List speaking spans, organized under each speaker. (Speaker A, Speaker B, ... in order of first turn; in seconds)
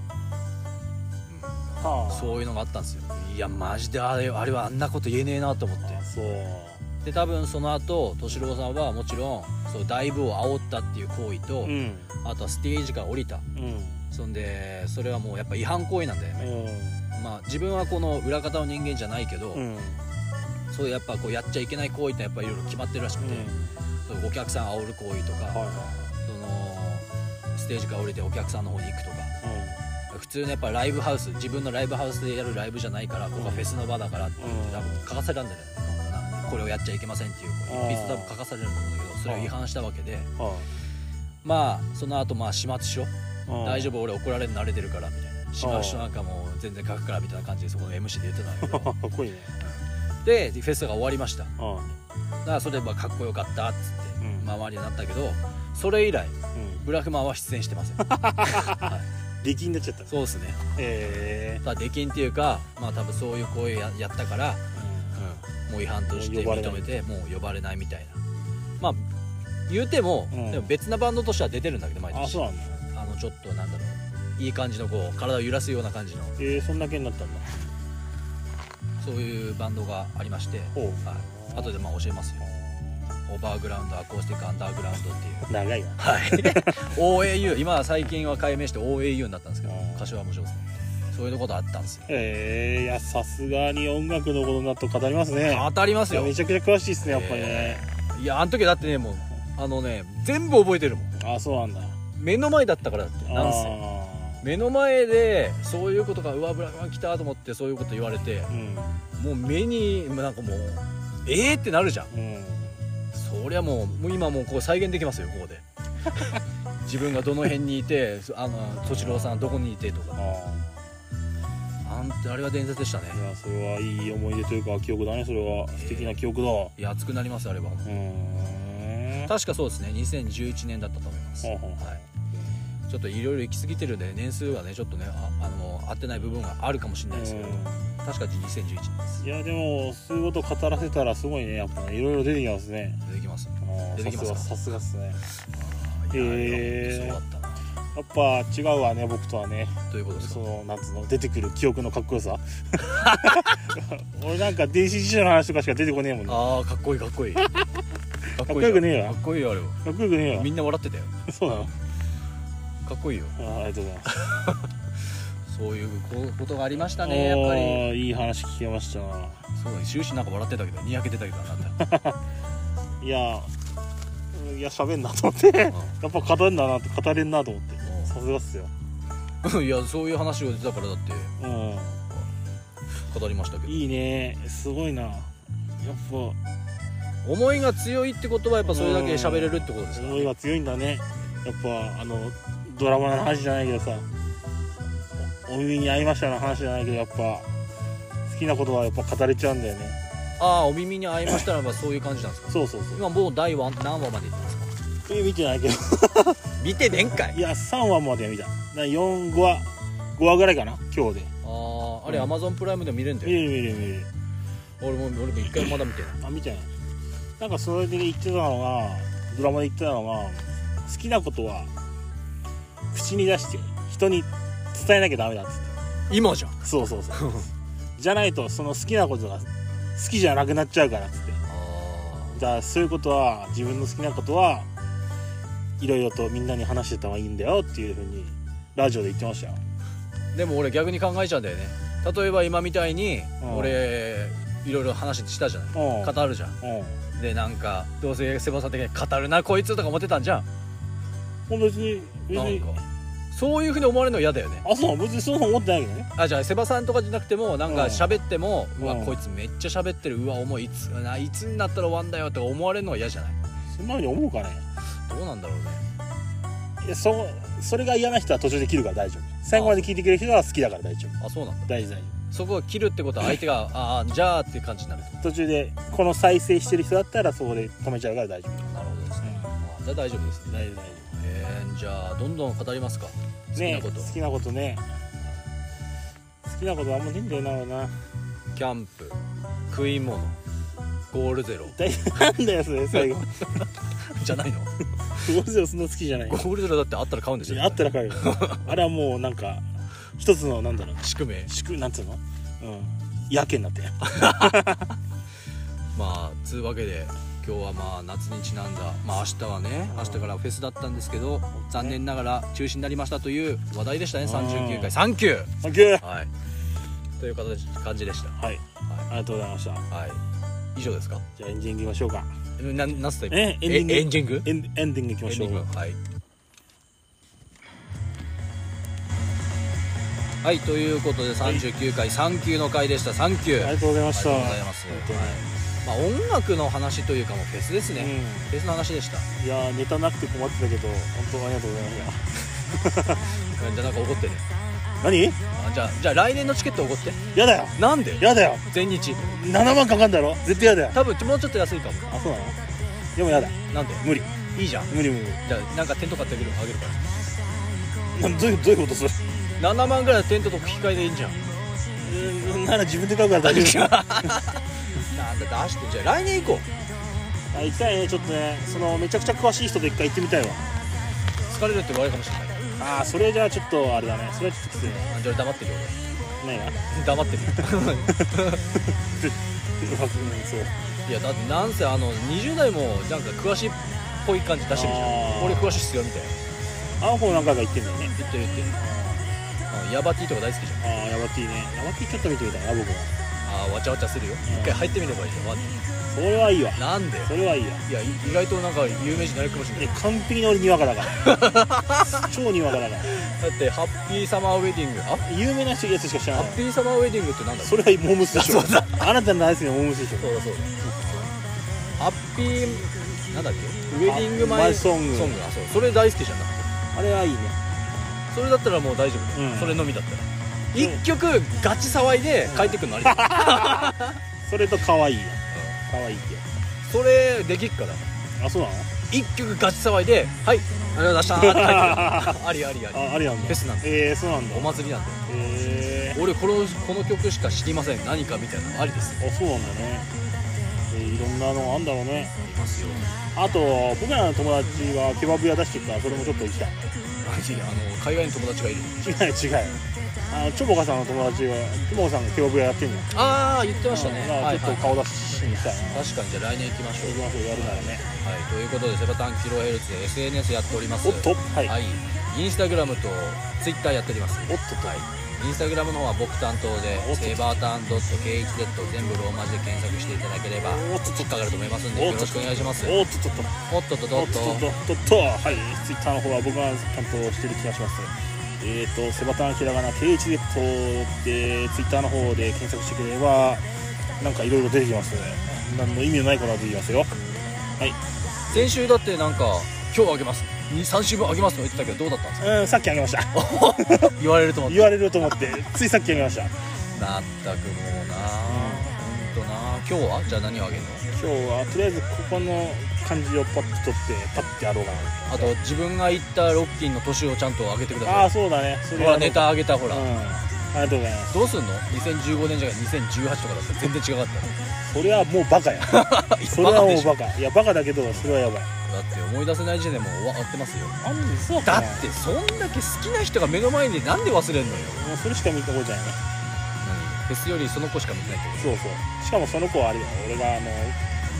Speaker A: 1.3-6.0, 7.0-13.4, 14.1-16.5, 17.1-19.6, 20.7-23.5, 24.1-25.6, 26.2-29.3, 30.1-40.3, 41.4-48.9, 49.6-51.5, 52.4-59.1, 60.1-60.6, 61.6-68.2, 68.8-69.1, 69.7-72.4, 72.9-76.3, 79.0-82.5, 83.3-92.1, 95.5-96.3, 97.0-101.1, 102.1-103.8, 104.4-108.5, 109.2-112.1, 113.1-115.6, 116.2-120.2, 121.8-123.2, 125.7-126.2, 126.8-128.0, 129.2-132.0, 132.9-139.2, 143.1-144.5, 145.5-147.6, 149.9-150.4, 153.0-153.3, 156.3-157.5, 158.4-161.1, 162.8-163.3, 164.2-164.6, 165.5-167.9, 169.6-171.8, 177.8-178.1, 179.4-181.3, 183.1-183.8, 187.2-190.3, 200.4-204.7, 206.6-207.4, 211.4-213.5, 214.8-216.2, 226.1-226.6, 227.1-227.5, 231.4-232.4, 240.3-246.6, 247.2-250.5, 252.3-254.7, 256.1-263.4, 265.1-265.8, 269.5-269.9, 271.2-271.7, 272.3-275.2, 278.6-280.6, 281.1-284.1, 288.5-290.4, 291.1-291.8, 292.9-294.7, 296.3-298.7, 301.0-301.5, 304.0-304.7, 305.9-316.3, 317.2-318.4, 319.9-320.2, 320.7-321.2, 322.6-324.5, 325.2-326.0, 330.4-339.3, 343.6-344.4, 345.5-347.2, 347.8-349.4, 350.9-352.1, 353.7-357.1, 359.6-361.4, 363.4-366.7, 371.5-372.6, 375.1-375.9, 376.9-378.6, 381.1-386.4, 388.1-388.8, 389.7-390.8, 393.4-395.8, 396.8-397.3, 397.9-399.9, 401.1-402.3, 403.1-405.3, 406.3-409.1, 410.2-411.3, 412.0-416.7, 418.3-424.2, 425.5-425.8, 426.8-428.1, 429.1-433.9, 434.5-435.2, 436.1-439.2, 442.4-443.1, 447.2-449.3, 453.1-455.0, 455.8-473.0, 473.7-474.7, 488.5-492.5, 493.3-495.0, 496.9-501.0, 505.3-508.3, 508.9-510.1, 511.3-514.6, 515.8-517.1, 518.9-521.0, 521.6-525.1, 526.8-528.7
Speaker B: 1.8-2.5, 5.8-6.8, 11.6-12.1, 13.5-14.1, 16.4-17.1, 19.5-20.0, 23.2-23.8, 25.5-26.1, 29.4-29.8, 33.4-33.7, 34.4-35.1, 37.7-38.4, 39.2-39.5, 40.4-40.7, 43.5-43.9, 45.6-46.2, 48.6-49.5, 51.6-51.9, 54.2-54.5, 56.5-56.8, 58.0-58.9, 59.4-60.1, 60.8-61.6, 64.7-65.3, 66.1-67.0, 70.3-70.8, 72.1-72.8, 76.4-77.7, 80.7-81.7, 82.4-83.2, 85.5-86.8, 89.6-90.2, 92.0-97.8, 101.2-102.0, 103.2-104.5, 108.5-109.0, 112.1-112.8, 118.9-120.8, 123.1-126.7, 127.8-129.3, 131.4-132.4, 137.1-137.9, 139.2-143.0, 143.6-145.2, 146.1-147.2, 147.9-156.4, 157.4-157.6, 158.3-159.2, 159.8-160.5, 161.2-161.7, 163.3-164.5, 166.8-169.4, 171.8-172.2, 173.0-173.5, 174.3-178.7, 181.4-182.1, 183.7-185.3, 185.8-186.4, 188.6-194.1, 195.4-197.5, 198.3-200.0, 202.5-203.0, 205.1-211.3, 213.2-214.1, 216.2-216.7, 217.4-221.7, 222.9-225.7, 226.6-227.4, 228.0-231.4, 232.3-234.7, 235.8-239.6, 243.4-243.8, 245.7-247.0, 251.5-252.8, 254.6-256.1, 257.6-258.2, 258.8-259.2, 263.7-264.6, 266.8-272.1, 275.2-279.6, 280.5-281.2, 283.5-284.8, 286.4-287.9, 291.7-293.7, 295.1-296.5, 297.4-304.9, 309.9-310.2, 311.6-312.0, 314.2-314.9, 315.6-316.1, 318.4-319.9, 321.3-322.3, 323.3-325.7, 333.6-335.5, 337.9-338.5, 339.4-343.2, 345.0-345.4, 347.3-348.6, 349.3-351.0, 352.1-352.6, 353.1-354.3, 354.9-355.4, 358.1-359.2, 362.0-364.3, 367.5-370.8, 372.8-375.1, 376.4-376.8, 377.5-380.7, 384.7-385.8, 387.0-388.1, 388.8-389.3, 390.8-393.2, 394.4-394.9, 396.1-397.8, 399.8-401.4, 402.1-403.1, 405.2-406.6, 407.6-410.3, 414.0-415.4, 416.9-418.2, 419.3-419.9, 420.7-421.0, 422.4-426.5, 428.4-428.9, 431.3-432.4, 432.9-436.2, 439.2-440.1, 440.9-442.3, 443.3-447.0, 449.0-453.1, 453.9-456.1, 457.0-458.1, 461.0-461.7, 464.5-465.0, 466.9-467.6, 470.6-471.3, 471.9-473.5, 474.1-483.6, 484.2-487.1, 492.4-496.5, 498.4-499.0, 501.1-505.5, 508.0-511.3, 514.8-518.7, 521.0-522.1, 524.9-526.2, 528.6-531.0